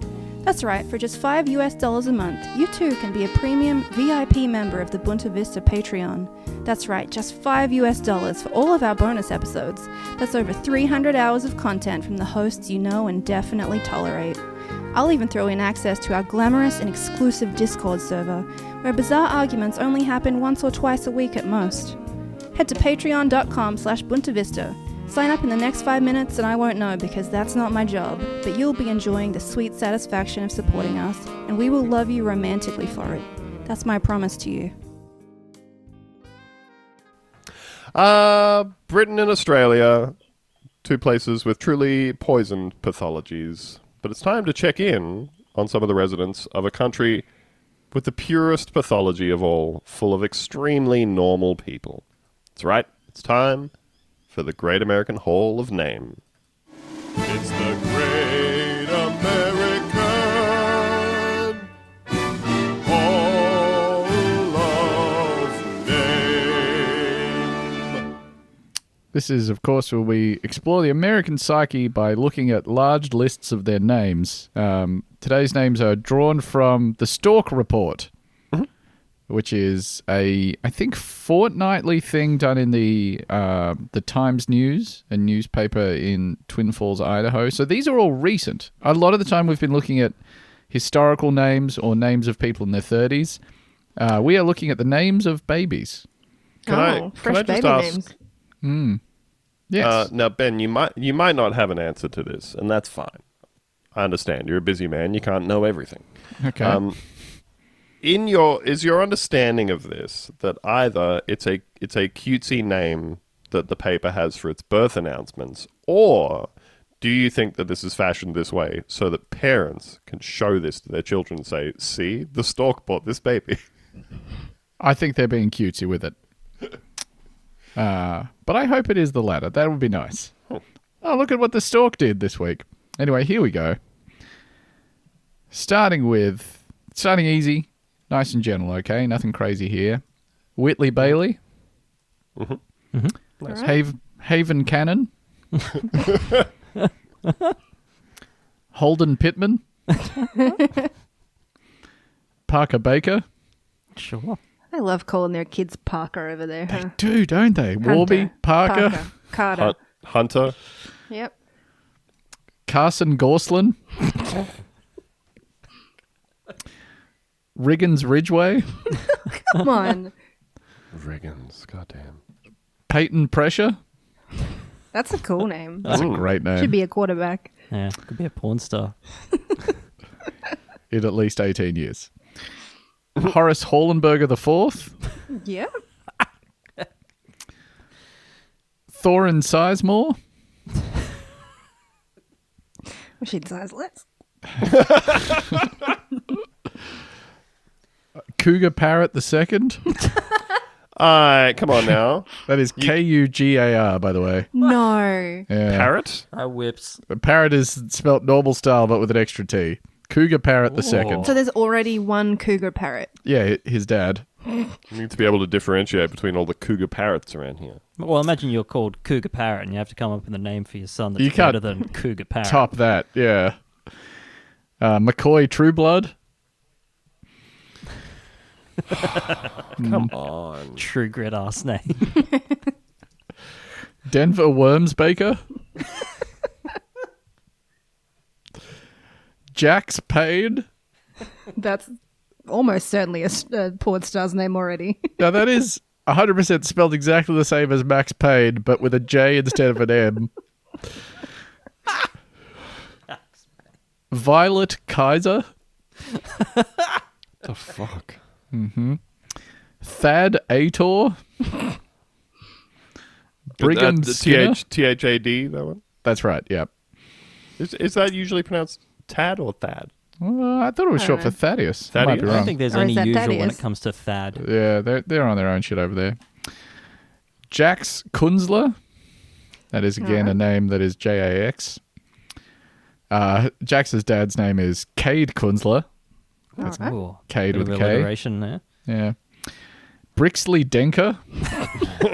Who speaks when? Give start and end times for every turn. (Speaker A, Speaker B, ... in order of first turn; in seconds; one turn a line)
Speaker A: 0.4-14.4
Speaker A: 14.9-22.0
Speaker A: 22.5-34.7
Speaker B: 27.6-32.8
Speaker C: 37.9-40.1
Speaker C: 40.8-47.2
Speaker C: 47.9-52.0
Speaker C: 52.6-53.7
Speaker C: 54.3-56.2
Speaker C: 57.2-61.6
Speaker C: 62.8-67.5
Speaker D: 69.1-78.1
Speaker D: 79.3-90.1
Speaker D: 90.7-93.4
Speaker D: 94.0-96.0
Speaker C: 96.7-98.0
Speaker B: 96.7-98.1
Speaker D: 98.6-99.0
Speaker D: 99.7-100.1
Speaker C: 99.8-103.2
Speaker C: 103.9-106.1
Speaker D: 106.4-106.8
Speaker C: 106.6-107.0
Speaker C: 108.0-116.5
Speaker C: 117.0-123.6
Speaker D: 124.8-126.1
Speaker D: 127.8-130.3
Speaker D: 131.0-133.8
Speaker D: 135.5-140.0
Speaker D: 140.6-141.4
Speaker B: 143.4-143.8
Speaker D: 143.6-145.1
Speaker E: 146.8-147.5
Speaker D: 148.7-149.6
Speaker E: 150.0-150.4
Speaker D: 152.5-153.2
Speaker E: 153.9-154.4
Speaker B: 154.7-156.9
Speaker D: 156.7-159.1
Speaker B: 157.8-159.7
Speaker C: 159.5-160.5
Speaker D: 162.7-163.8
Speaker D: 167.6-168.7
Speaker B: 169.5-170.1
Speaker C: 170.9-172.2
Speaker D: 172.9-173.8
Speaker B: 174.9-177.5
Speaker C: 175.9-176.2
Speaker D: 175.9-176.7
Speaker E: 177.7-178.9
Speaker D: 180.9-182.1
Speaker D: 183.2-184.9
Speaker B: 185.3-185.7
Speaker D: 188.9-190.2
Speaker B: 193.2-194.0
Speaker C: 194.6-195.6
Speaker D: 198.3-199.8
Speaker C: 201.0-202.9
Speaker D: 202.4-204.5
Speaker B: 204.5-205.5
Speaker D: 205.5-205.9
Speaker C: 205.7-206.2
Speaker E: 206.3-207.0
Speaker D: 207.1-211.3
Speaker E: 210.7-211.4
Speaker B: 211.2-213.1
Speaker D: 213.2-214.2
Speaker C: 214.9-217.8
Speaker E: 218.0-222.6
Speaker D: 221.2-221.6
Speaker D: 222.4-223.6
Speaker D: 224.8-226.1
Speaker E: 228.9-229.4
Speaker C: 229.8-230.8
Speaker D: 229.8-230.1
Speaker E: 230.8-232.2
Speaker D: 234.1-235.4
Speaker D: 239.5-240.7
Speaker B: 241.6-241.9
Speaker B: 242.4-245.1
Speaker D: 245.2-250.3
Speaker D: 254.1-255.5
Speaker E: 256.3-256.9
Speaker C: 257.4-258.2
Speaker D: 258.5-259.0
Speaker D: 259.8-261.2
Speaker D: 263.5-264.6
Speaker C: 263.6-265.8
Speaker D: 266.0-266.7
Speaker C: 267.6-269.9
Speaker D: 270.2-272.5
Speaker B: 271.0-271.3
Speaker C: 271.9-272.5
Speaker E: 272.1-274.4
Speaker B: 272.7-273.6
Speaker D: 274.4-276.2
Speaker D: 277.5-278.8
Speaker D: 279.7-281.8
Speaker B: 280.0-280.4
Speaker D: 283.1-285.9
Speaker B: 286.6-286.9
Speaker E: 286.6-288.6
Speaker D: 287.3-288.1
Speaker D: 288.9-289.1
Speaker D: 290.1-291.2